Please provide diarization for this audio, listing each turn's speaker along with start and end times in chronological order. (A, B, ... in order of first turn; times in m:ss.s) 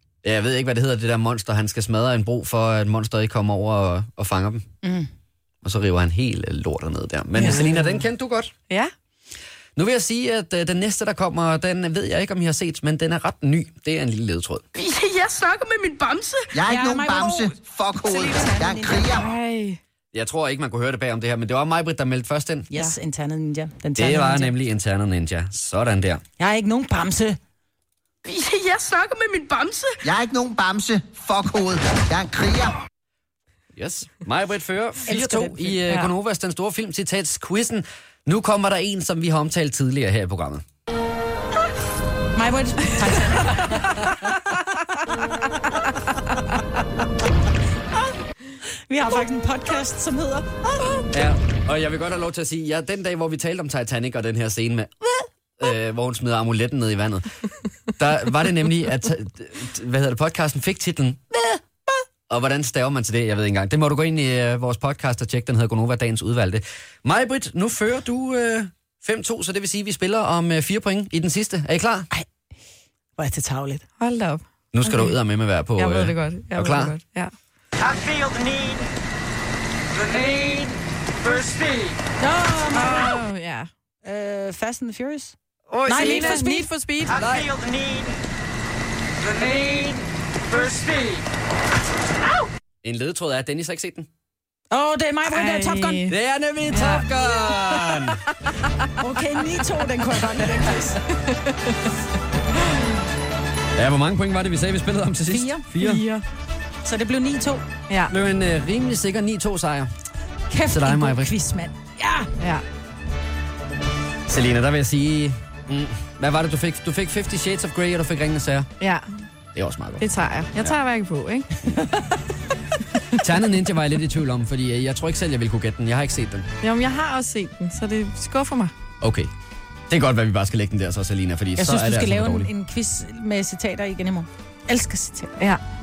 0:00.2-0:04.6 A
0:04.8-0:05.1 B
0:05.6-0:08.5 A
0:07.4-0:08.0 B
0:09.8-0:14.6 A
0:14.7-0:16.5 C
0:16.5-0:19.3 D
0:16.6-0:19.2 B
0:19.1-0:19.8 E
0:20.1-0:22.7 A
0:22.7-0:24.5 B
0:24.0-0:26.2 A
0:26.4-0:27.4 B
0:28.2-0:30.0 C
0:30.0-0:32.8 D
0:33.7-0:40.6 A
0:35.1-0:35.8 B
0:42.3-0:44.6 B
0:48.6-0:51.0 B
0:51.1-0:57.4 A
0:58.0-1:12.1 A
1:13.2-1:13.8 B
1:14.0-1:17.3 E
1:14.7-1:16.9 A
1:21.4-1:21.7 C
1:22.2-1:23.2 B
1:22.7-1:23.7 E
1:24.0-1:25.3 B
1:25.7-1:26.4 A
1:25.8-1:26.7 B
1:25.9-1:27.2 E
1:27.1-1:27.5 A
1:32.8-1:34.1 A
1:34.7-1:36.1 B
1:35.2-1:36.1 E
1:36.1-1:38.2 A
1:36.7-1:38.0 E
1:39.0-1:41.0 B
1:41.3-1:41.8 E
1:43.7-1:46.0 A
1:45.3-1:45.7 B
1:45.8-1:46.2 E
1:46.8-1:47.6 B
1:48.1-1:49.9 A
1:50.5-1:52.3 B
1:50.7-1:51.3 A
1:52.4-1:52.6 E
1:54.3-1:58.7 A
1:58.8-1:59.1 E
1:59.5-2:00.8 A
2:00.0-2:01.9 E
2:03.1-2:06.4 A
2:06.6-2:08.7 E
2:09.0-2:09.3 A
2:09.9-2:12.5 A
2:11.6-2:15.3 B